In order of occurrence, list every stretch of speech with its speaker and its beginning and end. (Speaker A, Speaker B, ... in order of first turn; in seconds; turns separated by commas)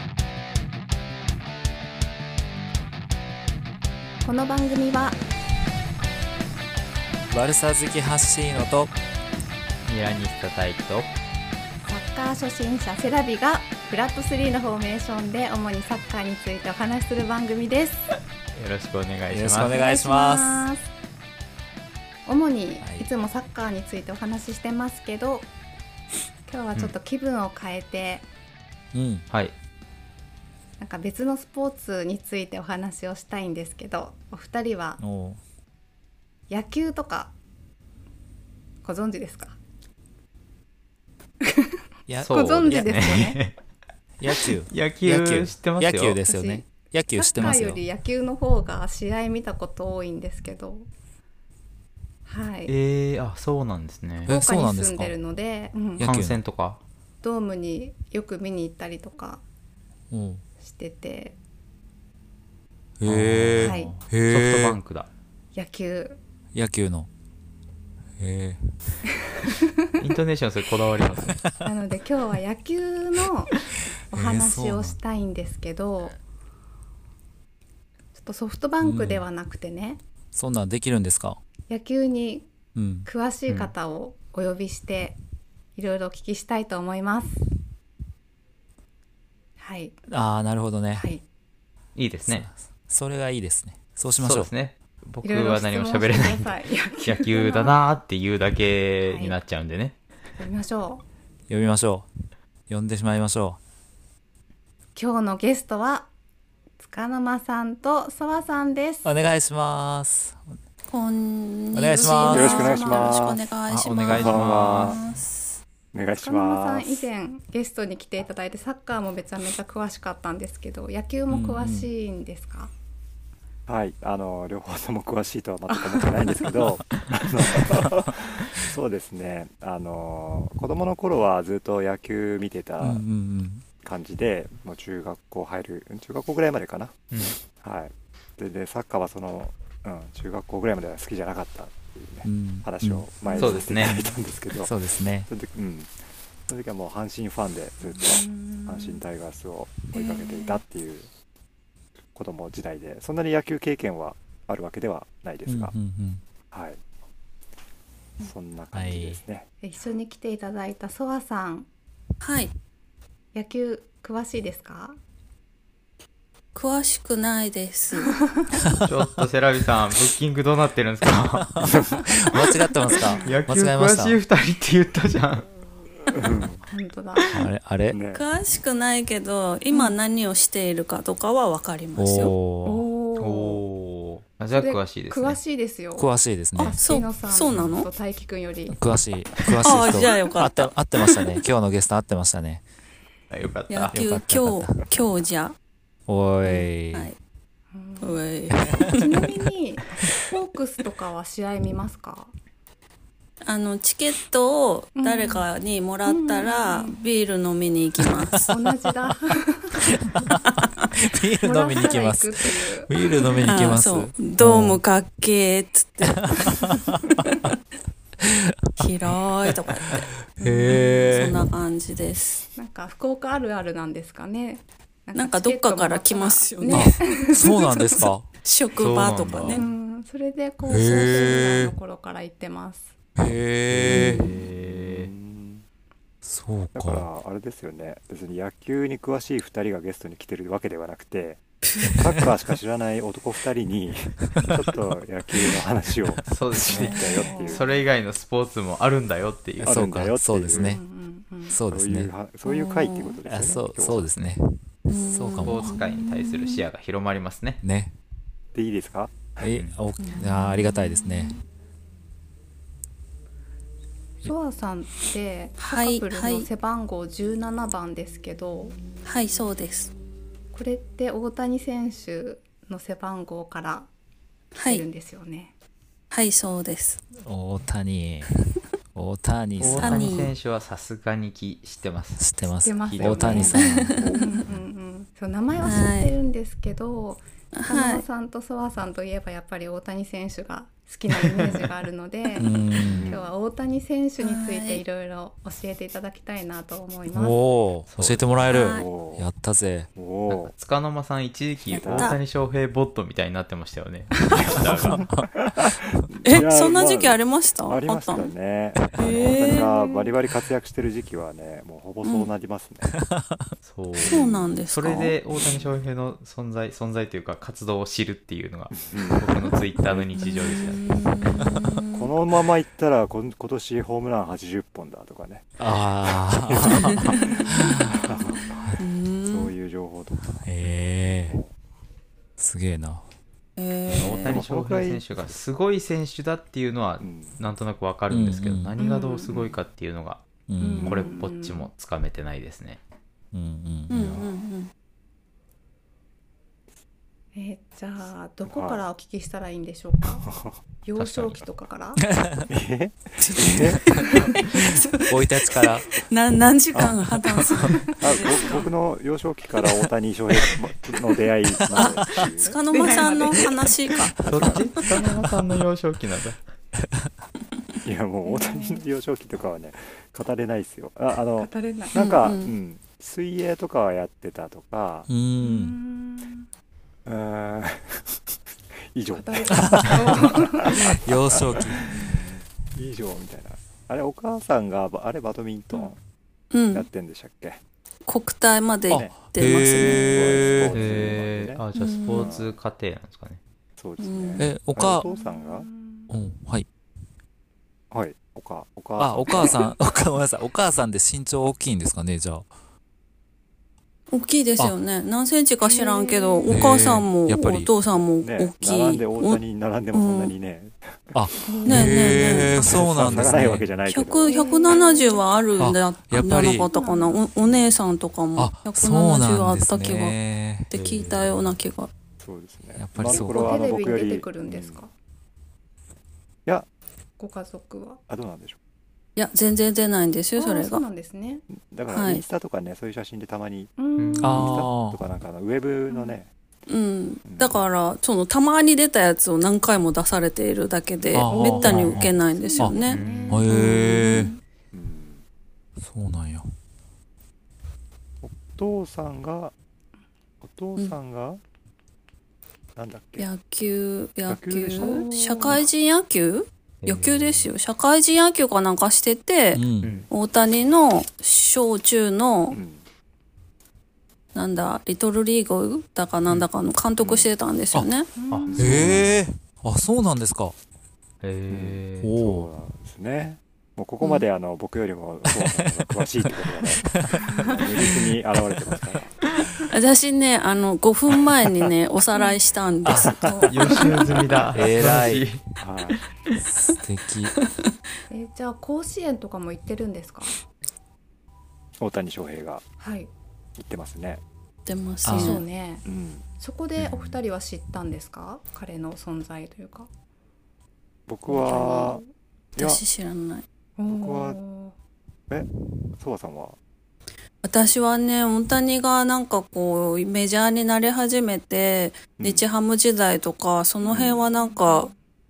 Speaker A: 4.2-5.2, Speaker B: 7.3-8.9, Speaker C: 9.8-11.1, Speaker A: 11.9-18.1, Speaker C: 18.5-19.8, Speaker B: 19.3-20.6, Speaker A: 19.7-20.9, Speaker A: 22.2-25.5, Speaker B: 22.8-23.1, Speaker A: 26.4-28.2, Speaker B: 28.9-29.2, Speaker A: 30.8-35.0, Speaker B: 35.0-35.4, Speaker A: 36.5-37.3, Speaker A: 38.8-39.6, Speaker A: 41.4-43.4, Speaker B: 42.1-43.4, Speaker C: 42.2-43.5, Speaker B: 44.2-47.8, Speaker C: 44.7-46.2, Speaker A: 46.2-50.9, Speaker A: 52.2-52.7, Speaker C: 52.7-54.3, Speaker B: 54.3-55.1, Speaker A: 54.3-56.1, Speaker B: 56.0-56.4, Speaker C: 56.0-56.8, Speaker A: 57.2-59.4, Speaker B: 60.1-60.4, Speaker A: 60.6-61.4, Speaker B: 63.0-64.8, Speaker C: 63.0-65.1, Speaker A: 63.6-63.9, Speaker A: 65.5-66.2, Speaker B: 66.5-67.1, Speaker B: 68.2-68.6, Speaker A: 69.3-70.0, Speaker C: 70.0-71.4, Speaker A: 71.6-76.2, Speaker B: 74.1-75.0, Speaker A: 78.1-80.0, Speaker B: 78.8-79.2, Speaker B: 80.3-81.4, Speaker A: 81.7-82.5, Speaker B: 82.7-83.1, Speaker A: 83.0-85.2, Speaker C: 83.5-83.7, Speaker A: 85.7-87.5, Speaker A: 89.6-89.9, Speaker B: 90.1-91.1, Speaker A: 90.9-91.2, Speaker C: 91.9-92.5, Speaker B: 92.2-94.5, Speaker C: 94.2-100.0, Speaker A: 95.2-97.8, Speaker A: 99.0-99.3, Speaker A: 100.4-101.0, Speaker B: 101.5-102.1, Speaker B: 102.7-103.6, Speaker A: 104.9-106.1, Speaker A: 106.8-109.1, Speaker B: 109.0-110.5, Speaker D: 110.9-115.6, Speaker B: 111.7-112.6, Speaker A: 112.0-113.3, Speaker E: 112.3-113.5, Speaker C: 113.7-115.0, Speaker E: 114.1-115.0, Speaker E: 115.9-117.1, Speaker A: 116.2-122.7, Speaker B: 121.3-121.9, Speaker E: 123.7-133.0, Speaker A: 125.7-126.6, Speaker B: 132.8-133.6, Speaker E: 133.8-136.9, Speaker C: 137.1-137.4, Speaker E: 137.5-144.8, Speaker B: 142.2-143.1, Speaker A: 143.3-143.6, Speaker C: 143.4-144.0, Speaker B: 143.9-145.3, Speaker E: 145.3-145.9, Speaker E: 146.5-151.1, Speaker A: 148.0-149.0, Speaker D: 149.9-150.6, Speaker E: 152.1-155.7, Speaker B: 155.4-156.2, Speaker E: 156.5-156.8, Speaker E: 158.2-159.5, Speaker B: 158.7-159.2, Speaker A: 159.6-161.7, Speaker D: 162.2-162.5, Speaker A: 163.3-165.0, Speaker D: 166.5-168.1, Speaker A: 168.0-168.4, Speaker C: 168.8-171.6, Speaker B: 171.0-174.2, Speaker E: 171.6-172.0, Speaker A: 173.0-173.4, Speaker C: 173.2-175.5, Speaker E: 176.1-176.6, Speaker A: 176.7-177.3, Speaker B: 177.3-178.0, Speaker E: 177.9-178.2, Speaker D: 178.1-182.3, Speaker A: 179.7-179.9, Speaker B: 182.0-182.8, Speaker A: 182.6-183.6, Speaker C: 183.2-185.4, Speaker A: 184.5-188.8, Speaker B: 185.9-186.8, Speaker D: 186.6-187.9, Speaker B: 188.7-192.6, Speaker D: 189.5-191.4, Speaker C: 193.3-193.9, Speaker D: 193.7-195.5, Speaker B: 193.9-194.9, Speaker B: 196.1-197.1, Speaker D: 196.5-197.2, Speaker A: 197.7-202.3, Speaker D: 198.0-199.2, Speaker B: 198.7-198.9, Speaker D: 203.4-208.5, Speaker A: 205.0-205.5, Speaker A: 206.1-207.0, Speaker A: 208.5-209.9, Speaker B: 210.1-214.8, Speaker A: 211.4-213.3, Speaker D: 213.4-217.3, Speaker B: 216.1-217.1, Speaker B: 218.2-221.4, Speaker D: 218.8-222.4, Speaker A: 222.6-227.4, Speaker D: 225.1-229.7, Speaker B: 226.7-228.3, Speaker C: 228.8-229.6, Speaker A: 229.5-232.9, Speaker B: 230.7-231.7, Speaker B: 233.2-234.2, Speaker C: 233.7-235.1, Speaker D: 233.9-234.3, Speaker E: 234.5-235.6, Speaker B: 236.2-237.1, Speaker E: 236.7-247.7, Speaker C: 246.3-249.8, Speaker D: 246.7-247.3, Speaker A: 246.7-247.7, Speaker E: 249.6-250.8, Speaker B: 249.6-250.8, Speaker A: 250.5-251.6, Speaker B: 251.5-252.1, Speaker E: 251.7-254.1, Speaker D: 252.4-253.2, Speaker B: 253.3-255.7, Speaker D: 254.9-256.6, Speaker C: 255.4-257.6, Speaker B: 257.6-257.9, Speaker E: 258.5-259.5, Speaker B: 259.4-261.3, Speaker D: 260.0-261.4, Speaker A: 260.1-260.4, Speaker A: 264.2-268.8, Speaker D: 265.6-266.5, Speaker D: 269.0-269.9, Speaker A: 270.5-273.9, Speaker D: 274.6-274.8, Speaker A: 274.6-275.5, Speaker D: 276.1-277.0, Speaker B: 277.2-278.3, Speaker B: 278.9-280.2, Speaker C: 279.6-282.3, Speaker D: 279.8-280.3, Speaker B: 282.2-284.2, Speaker A: 282.4-297.4, Speaker C: 282.9-283.6, Speaker E: 283.0-283.4, Speaker D: 283.5-284.4, Speaker D: 285.6-286.1, Speaker D: 287.5-288.0, Speaker B: 292.4-293.0, Speaker C: 292.9-293.1, Speaker E: 293.0-293.3, Speaker D: 294.2-294.8, Speaker B: 297.1-299.9, Speaker C: 297.9-298.3, Speaker D: 298.5-298.9, Speaker E: 298.6-299.3, Speaker E: 299.9-300.5, Speaker C: 300.3-305.0, Speaker E: 301.7-302.1, Speaker D: 301.8-302.2, Speaker E: 304.3-312.9, Speaker B: 304.8-305.3, Speaker D: 306.2-308.3, Speaker D: 308.9-309.9, Speaker D: 312.0-312.3, Speaker B: 312.8-313.5, Speaker C: 313.6-320.8, Speaker D: 314.0-315.1, Speaker E: 315.4-315.7, Speaker E: 318.7-319.3, Speaker D: 320.1-322.1, Speaker E: 321.9-325.5, Speaker B: 325.6-328.0, Speaker E: 326.1-328.7, Speaker D: 327.2-327.8, Speaker A: 327.7-328.4, Speaker D: 328.8-329.5, Speaker E: 329.3-331.5, Speaker B: 330.4-331.4, Speaker B: 332.4-333.0, Speaker D: 333.6-334.4, Speaker C: 333.9-340.2, Speaker E: 334.2-335.0, Speaker E: 337.0-337.4, Speaker B: 338.1-338.7, Speaker A: 338.8-339.3, Speaker E: 339.3-339.6, Speaker B: 340.5-341.0, Speaker A: 340.6-341.7, Speaker C: 340.8-342.8, Speaker E: 340.8-341.2, Speaker B: 343.3-344.2, Speaker D: 343.9-344.7, Speaker E: 343.9-344.3, Speaker A: 347.3-350.3, Speaker E: 348.5-348.8, Speaker E: 350.3-350.6, Speaker A: 350.8-352.0, Speaker B: 352.0-352.5, Speaker E: 352.5-353.9, Speaker B: 353.2-354.4, Speaker D: 354.0-355.0, Speaker A: 354.0-354.7, Speaker B: 354.9-355.9, Speaker D: 355.9-358.6, Speaker E: 356.7-357.1, Speaker A: 357.7-358.6, Speaker E: 358.0-362.6, Speaker D: 361.7-364.7, Speaker A: 362.7-363.6, Speaker E: 364.2-364.7, Speaker C: 364.2-366.4, Speaker E: 367.8-375.1, Speaker A: 368.2-368.8, Speaker A: 371.4-371.9, Speaker D: 371.9-372.5, Speaker B: 375.1-375.8, Speaker A: 375.4-376.4, Speaker E: 377.1-378.2, Speaker E: 378.9-386.0, Speaker A: 379.1-380.8, Speaker B: 379.6-379.8, Speaker B: 380.7-381.9, Speaker D: 386.5-386.9, Speaker E: 386.7-387.6, Speaker D: 388.1-390.5, Speaker B: 388.9-391.0, Speaker E: 388.9-392.6, Speaker C: 390.7-393.4, Speaker D: 391.7-392.3, Speaker E: 393.8-395.7, Speaker D: 394.0-394.5, Speaker B: 394.4-395.0, Speaker A: 395.0-396.1, Speaker B: 396.1-396.7, Speaker E: 397.9-399.7, Speaker B: 399.0-402.5, Speaker D: 404.1-409.4, Speaker A: 405.6-406.6, Speaker B: 406.5-407.7, Speaker E: 408.2-411.2, Speaker D: 409.9-410.3, Speaker B: 411.1-413.7, Speaker A: 411.4-412.6, Speaker D: 411.6-413.2, Speaker E: 412.3-414.4, Speaker D: 413.9-420.2, Speaker A: 414.2-415.4, Speaker B: 415.6-416.7, Speaker A: 416.5-417.3, Speaker B: 418.4-420.7, Speaker D: 420.7-421.9, Speaker C: 420.7-421.5, Speaker E: 422.2-424.8, Speaker B: 422.8-423.6, Speaker A: 423.0-424.9, Speaker A: 427.2-428.0, Speaker E: 428.1-428.6, Speaker D: 429.1-430.8, Speaker A: 430.4-431.4, Speaker E: 431.5-436.3, Speaker D: 431.9-432.2, Speaker A: 433.8-434.6, Speaker C: 434.0-434.5, Speaker B: 434.2-435.0, Speaker A: 435.9-436.1, Speaker D: 436.7-444.4, Speaker E: 437.2-437.6, Speaker A: 441.1-443.8, Speaker B: 441.1-442.8, Speaker C: 441.7-442.1, Speaker C: 442.8-443.5, Speaker B: 443.3-444.3, Speaker E: 444.7-445.2, Speaker B: 445.8-446.5, Speaker E: 448.2-449.5, Speaker E: 450.4-451.4, Speaker E: 452.8-453.3, Speaker D: 453.2-462.6, Speaker E: 454.3-455.6, Speaker A: 454.8-455.6, Speaker C: 456.8-457.5, Speaker B: 459.5-459.9, Speaker C: 459.8-460.1, Speaker E: 462.5-462.8, Speaker D: 464.3-468.1, Speaker E: 467.0-467.3, Speaker A: 468.1-468.9, Speaker C: 468.3-469.1, Speaker E: 468.5-469.2, Speaker B: 468.6-470.5, Speaker C: 471.2-472.1, Speaker E: 471.5-479.1, Speaker B: 472.0-472.5, Speaker B: 475.3-476.3, Speaker B: 476.8-477.2, Speaker A: 477.2-477.7, Speaker B: 478.4-478.9, Speaker D: 479.7-483.2, Speaker B: 482.8-483.5, Speaker A: 483.1-484.3, Speaker C: 483.5-485.4, Speaker B: 484.5-485.2, Speaker E: 485.6-485.9, Speaker D: 485.9-486.7, Speaker B: 486.4-487.3, Speaker D: 487.4-487.7, Speaker A: 488.1-490.3, Speaker E: 491.8-492.6, Speaker A: 492.8-493.1, Speaker E: 493.6-494.2, Speaker D: 494.6-495.4, Speaker B: 495.0-495.4, Speaker A: 495.1-499.9, Speaker E: 495.8-496.3, Speaker C: 496.8-497.2, Speaker E: 501.1-502.0, Speaker D: 501.3-501.9, Speaker A: 501.4-502.1, Speaker E: 502.6-502.8, Speaker D: 502.6-503.4, Speaker A: 503.8-504.7, Speaker E: 503.9-504.4, Speaker E: 505.3-506.6, Speaker D: 507.4-514.9, Speaker E: 512.2-512.5, Speaker E: 513.9-514.2, Speaker A: 514.4-514.9